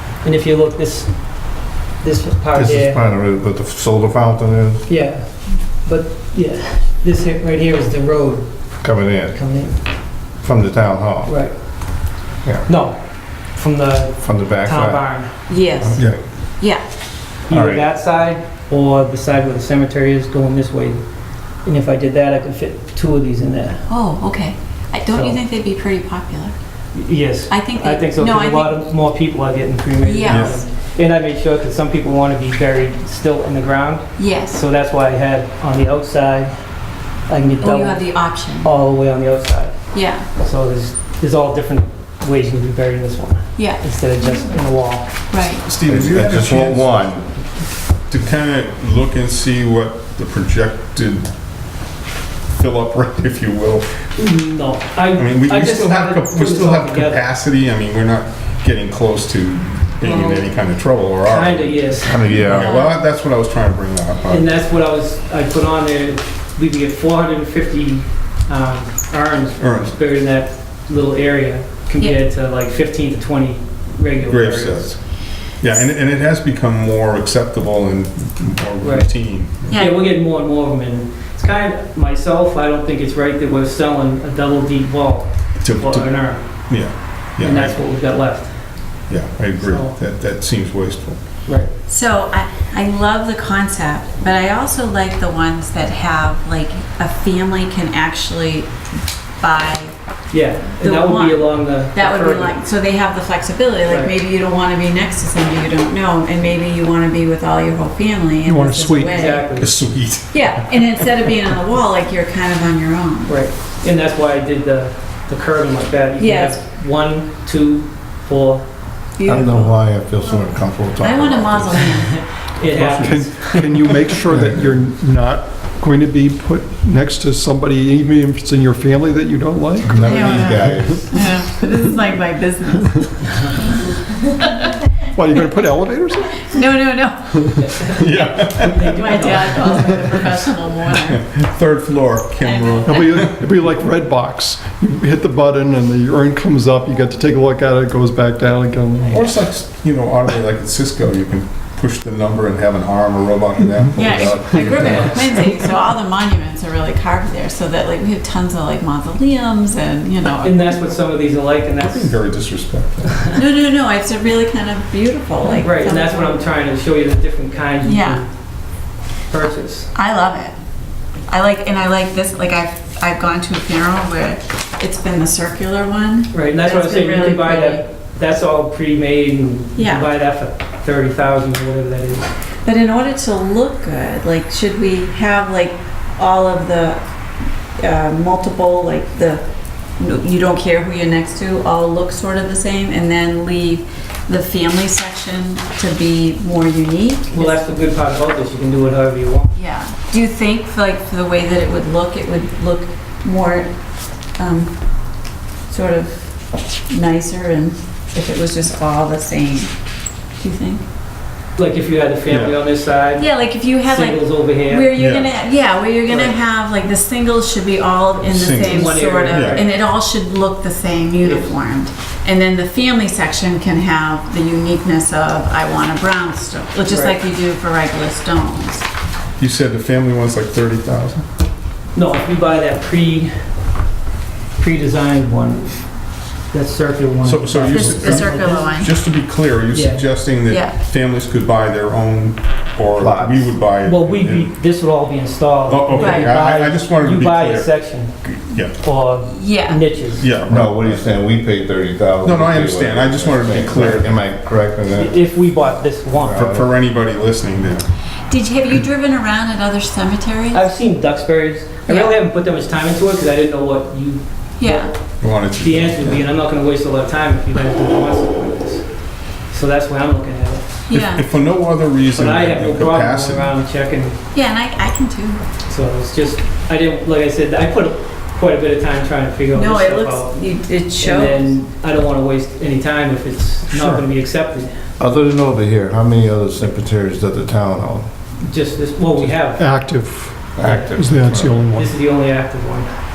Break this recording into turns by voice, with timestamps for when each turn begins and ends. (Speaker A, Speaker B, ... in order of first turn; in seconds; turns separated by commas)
Speaker A: 0.2-1.4, Speaker A: 2.0-3.0, Speaker B: 2.5-4.8, Speaker A: 4.9-5.2, Speaker A: 5.8-8.5, Speaker B: 8.8-9.3, Speaker A: 9.3-9.8, Speaker B: 10.4-11.3, Speaker A: 11.2-11.5, Speaker A: 12.7-13.0, Speaker A: 13.5-15.3, Speaker B: 14.2-15.0, Speaker C: 15.5-16.0, Speaker B: 15.8-16.2, Speaker A: 17.5-21.0, Speaker B: 17.5-17.9, Speaker A: 21.6-23.9, Speaker C: 23.9-26.5, Speaker A: 25.1-25.4, Speaker A: 26.9-36.5, Speaker C: 27.5-28.8, Speaker C: 30.0-30.6, Speaker D: 30.3-30.6, Speaker C: 34.2-34.6, Speaker A: 37.3-39.8, Speaker C: 37.6-38.7, Speaker C: 39.9-40.3, Speaker A: 40.3-45.1, Speaker C: 43.6-43.8, Speaker C: 45.3-45.6, Speaker D: 45.6-47.2, Speaker B: 45.9-47.3, Speaker D: 48.1-51.3, Speaker D: 52.6-54.0, Speaker A: 54.2-57.2, Speaker D: 55.1-64.5, Speaker A: 60.0-60.5, Speaker A: 61.3-62.6, Speaker B: 62.1-62.7, Speaker C: 62.5-63.1, Speaker A: 64.3-74.9, Speaker D: 69.6-70.0, Speaker D: 74.3-75.0, Speaker D: 75.6-79.8, Speaker A: 78.8-79.1, Speaker C: 79.7-80.0, Speaker A: 79.7-86.4, Speaker D: 85.6-87.8, Speaker A: 87.4-88.5, Speaker D: 89.1-91.2, Speaker A: 89.6-90.0, Speaker C: 91.9-98.7, Speaker C: 99.4-99.9, Speaker A: 100.3-102.6, Speaker C: 100.8-109.5, Speaker A: 103.9-104.2, Speaker E: 108.5-109.2, Speaker A: 109.1-109.7, Speaker D: 109.5-111.1, Speaker C: 110.3-113.4, Speaker A: 113.3-118.6, Speaker C: 116.2-116.6, Speaker C: 119.2-120.5, Speaker B: 119.2-121.9, Speaker C: 121.0-122.2, Speaker A: 122.0-123.6, Speaker E: 122.7-131.0, Speaker B: 124.3-124.6, Speaker B: 129.8-131.2, Speaker C: 130.0-133.5, Speaker C: 134.4-134.7, Speaker E: 135.1-136.5, Speaker C: 136.4-137.8, Speaker E: 137.3-137.6, Speaker D: 137.8-139.7, Speaker A: 138.6-140.0, Speaker C: 138.8-141.2, Speaker D: 141.1-143.7, Speaker C: 142.4-143.2, Speaker E: 142.8-149.3, Speaker D: 149.1-155.3, Speaker C: 154.0-160.7, Speaker A: 154.8-155.5, Speaker A: 160.4-162.2, Speaker D: 161.8-163.3, Speaker C: 163.3-166.4, Speaker A: 165.4-168.3, Speaker C: 167.8-168.2, Speaker A: 169.3-169.9, Speaker C: 169.9-170.5, Speaker C: 171.3-177.8, Speaker A: 176.3-182.3, Speaker C: 179.8-180.1, Speaker C: 182.7-187.0, Speaker C: 187.8-189.4, Speaker C: 190.0-197.6, Speaker A: 197.3-199.5, Speaker C: 199.6-203.7, Speaker C: 204.4-204.8, Speaker C: 205.7-206.4, Speaker C: 206.9-209.7, Speaker C: 210.4-210.8, Speaker A: 211.6-214.9, Speaker D: 212.3-212.6, Speaker C: 213.2-228.8, Speaker D: 214.9-215.3, Speaker A: 216.1-216.3, Speaker D: 218.2-219.7, Speaker A: 218.6-219.7, Speaker A: 221.2-221.5, Speaker A: 226.9-227.2, Speaker D: 229.4-231.2, Speaker A: 231.9-233.4, Speaker A: 234.6-235.9, Speaker A: 236.5-238.6, Speaker D: 237.2-244.5, Speaker C: 237.7-238.9, Speaker A: 239.7-240.0, Speaker C: 240.5-240.8, Speaker B: 243.0-243.6, Speaker A: 243.9-248.2, Speaker D: 245.7-248.8, Speaker C: 246.0-246.3, Speaker A: 248.8-250.3, Speaker C: 249.2-249.9, Speaker D: 250.2-251.1, Speaker B: 250.5-255.2, Speaker D: 252.2-254.2, Speaker A: 254.9-256.5, Speaker B: 256.2-256.6, Speaker D: 256.3-257.9, Speaker C: 258.3-260.7, Speaker A: 260.5-264.9, Speaker C: 261.9-262.1, Speaker C: 264.6-264.9, Speaker D: 265.2-266.2, Speaker A: 265.6-268.9, Speaker A: 269.5-270.6, Speaker C: 270.9-271.2, Speaker D: 270.9-273.5, Speaker A: 272.1-274.2, Speaker C: 274.3-275.4, Speaker A: 275.7-280.4, Speaker C: 279.6-281.5, Speaker A: 281.0-284.7, Speaker E: 283.7-284.1, Speaker B: 285.0-288.1, Speaker A: 288.4-289.7, Speaker E: 289.6-291.9, Speaker B: 290.6-291.6, Speaker A: 291.7-292.9